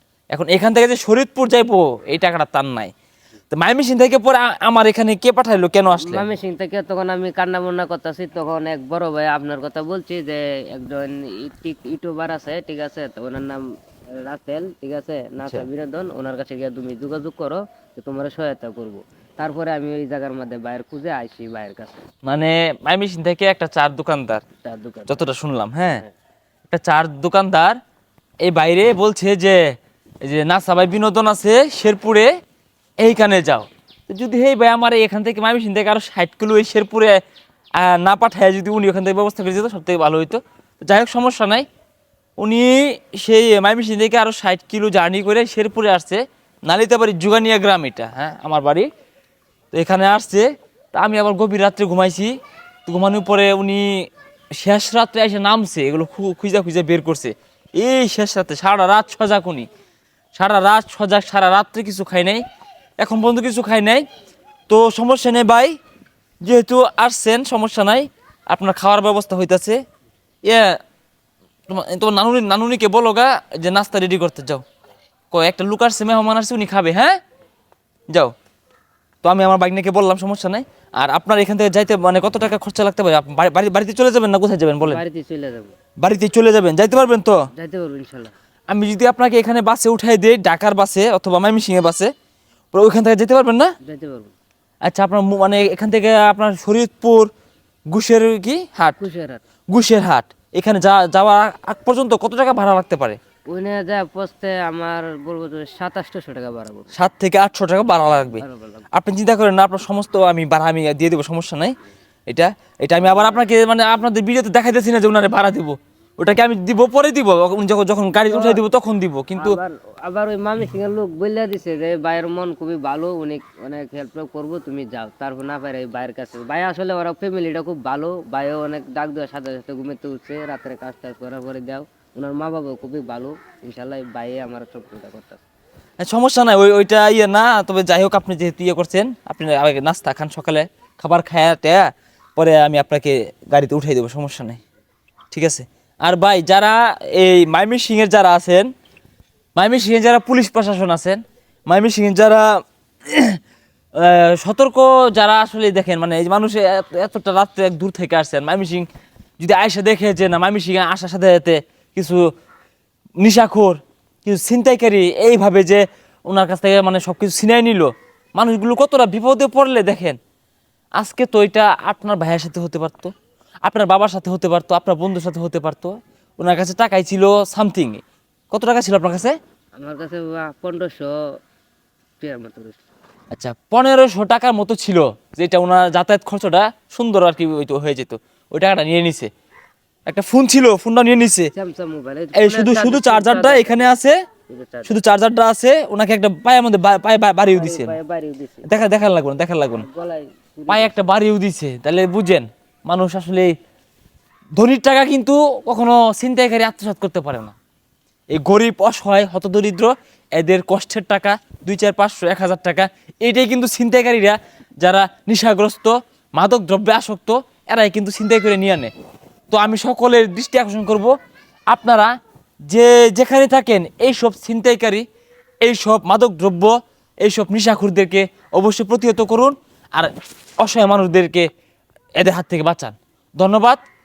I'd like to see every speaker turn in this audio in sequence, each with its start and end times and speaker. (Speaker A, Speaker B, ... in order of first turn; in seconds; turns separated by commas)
Speaker A: 0.3-2.9, Speaker A: 3.5-6.3, Speaker B: 6.0-13.6, Speaker B: 14.2-22.0, Speaker A: 22.2-24.4, Speaker B: 24.6-25.3, Speaker A: 25.1-26.0, Speaker A: 26.7-27.8, Speaker A: 28.4-32.3, Speaker A: 33.0-37.2, Speaker A: 37.8-41.7, Speaker A: 42.4-48.9, Speaker A: 49.7-52.4, Speaker A: 52.9-59.7, Speaker A: 60.4-62.4, Speaker A: 63.0-64.0, Speaker A: 64.7-65.8, Speaker A: 66.4-69.8, Speaker A: 70.5-70.8, Speaker A: 71.7-74.6, Speaker A: 75.3-77.2, Speaker A: 79.2-85.0, Speaker B: 84.8-85.8, Speaker A: 86.0-87.4, Speaker B: 87.5-88.3, Speaker A: 88.7-92.1, Speaker A: 92.7-93.7, Speaker B: 93.8-94.3, Speaker A: 94.8-97.3, Speaker A: 97.9-99.0, Speaker B: 99.0-99.4, Speaker A: 99.7-103.2, Speaker B: 103.5-106.9, Speaker A: 107.0-111.7, Speaker B: 108.2-108.8, Speaker A: 112.3-119.6, Speaker B: 113.1-113.4, Speaker B: 118.3-118.6, Speaker B: 119.4-135.4, Speaker A: 136.0-144.6, Speaker A: 145.3-148.7, Speaker A: 149.6-152.5, Speaker A: 153.1-153.4, Speaker A: 154.0-158.9, Speaker A: 159.4-162.2, Speaker A: 163.2-170.2, Speaker A: 171.0-173.1, Speaker A: 173.7-179.3, Speaker B: 179.8-181.1, Speaker B: 182.2-182.8, Speaker A: 183.3-189.3, Speaker A: 190.1-191.5, Speaker B: 191.5-193.9, Speaker A: 192.3-194.2, Speaker B: 194.5-195.0, Speaker A: 194.8-197.9, Speaker B: 197.5-198.7, Speaker A: 198.7-199.9, Speaker B: 199.8-201.1, Speaker A: 200.7-203.5, Speaker A: 204.6-207.6, Speaker A: 208.3-218.9, Speaker A: 219.5-221.1, Speaker A: 221.7-222.1, Speaker A: 222.7-225.1, Speaker A: 225.6-231.5, Speaker A: 232.2-233.8